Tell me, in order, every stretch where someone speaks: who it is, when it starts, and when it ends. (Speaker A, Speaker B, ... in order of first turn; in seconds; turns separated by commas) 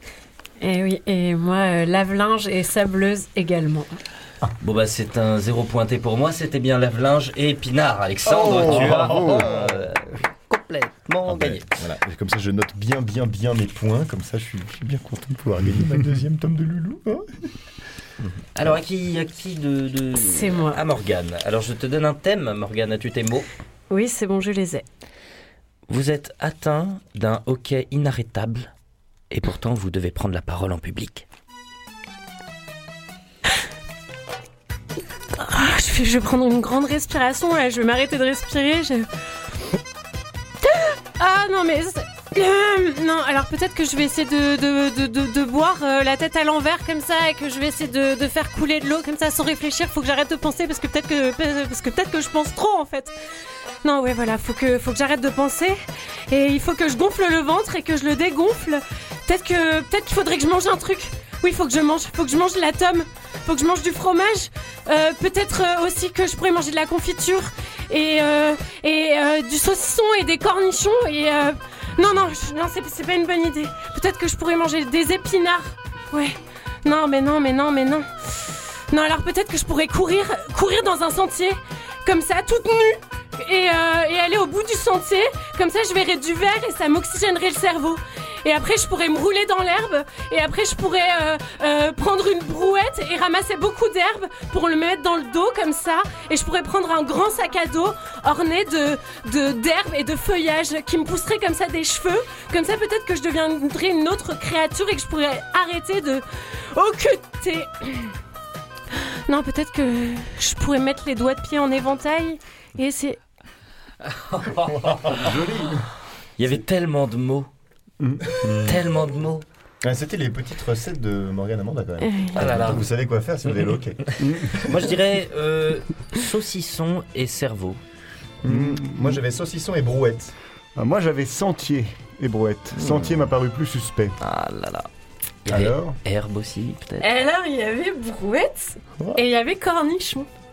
Speaker A: 0.6-4.0, Speaker B: 4.6-11.9, Speaker C: 8.4-9.5, Speaker D: 8.5-9.9, Speaker D: 11.2-17.3, Speaker B: 18.5-23.5, Speaker A: 20.2-20.8, Speaker A: 23.9-24.8, Speaker B: 25.9-28.7, Speaker B: 29.3-31.2, Speaker A: 35.3-39.1, Speaker A: 40.6-53.1, Speaker A: 53.8-55.8, Speaker A: 56.3-108.1, Speaker A: 109.2-113.2, Speaker B: 114.2-115.3, Speaker D: 114.7-115.5, Speaker C: 115.5-115.8, Speaker B: 116.4-117.5, Speaker C: 118.0-118.8, Speaker B: 118.4-119.4, Speaker D: 119.8-124.9, Speaker A: 122.0-122.7, Speaker B: 122.3-122.9, Speaker B: 123.7-127.8, Speaker C: 124.2-124.5, Speaker D: 128.4-130.3, Speaker C: 128.5-129.2, Speaker C: 130.8-134.2, Speaker D: 132.7-133.3, Speaker B: 134.2-134.9, Speaker B: 135.4-137.1, Speaker C: 135.5-135.9, Speaker A: 137.0-140.3, Speaker D: 139.0-139.2